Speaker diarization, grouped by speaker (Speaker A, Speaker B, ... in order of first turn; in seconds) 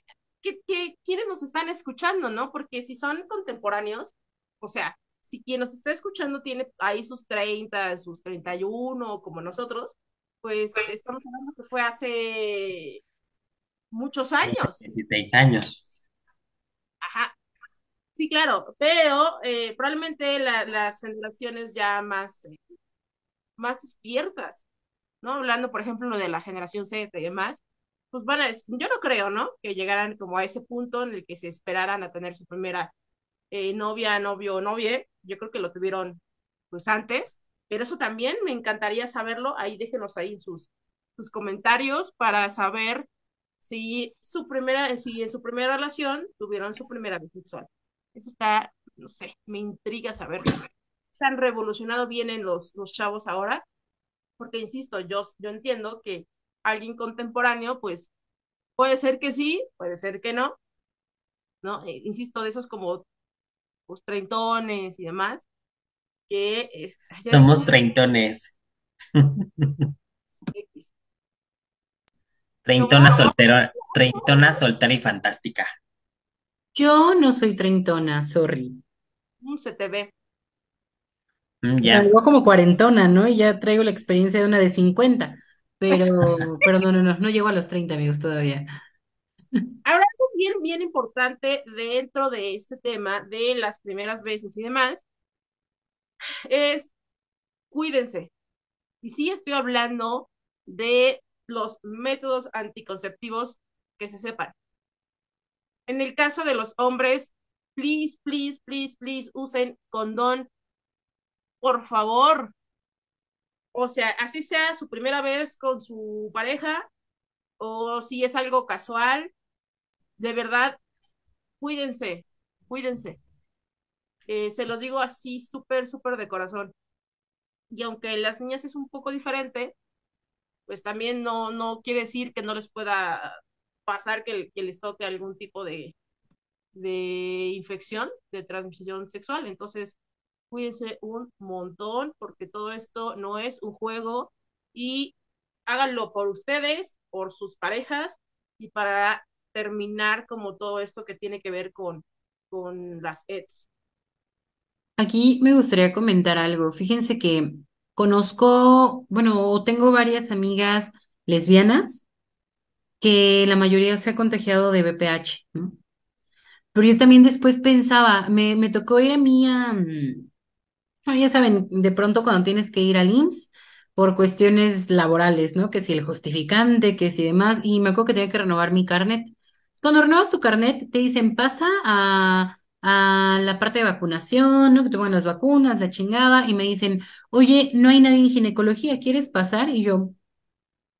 Speaker A: 0.4-13.0, 13.9-14.8, 17.0-17.3, 18.1-22.6, 23.6-24.6, 25.2-32.9, 33.5-36.2, 36.7-43.1, 43.6-50.6, 51.2-53.6, 54.4-58.1, 58.8-60.5, 61.6-63.0, 63.9-65.5, 66.3-67.7, 70.5-70.9, 72.8-73.3, 73.9-74.6, 79.4-80.1, 89.8-95.0, 96.5-96.9, 97.7-98.3, 99.0-104.5, 105.9-110.5, 111.6-112.5, 113.7-116.9, 117.6-119.3, 120.2-120.8, 121.6-123.2, 124.3-126.7, 127.7-129.8, 130.7-135.9, 136.7-140.0, 140.5-145.2, 145.7-153.7
Speaker B: 14.4-15.8, 67.3-68.5, 69.2-69.9, 72.7-75.7, 81.6-82.1
Speaker C: 76.7-78.8, 81.8-88.7, 155.0-162.1, 163.0-165.8, 166.7-170.3, 171.1-190.2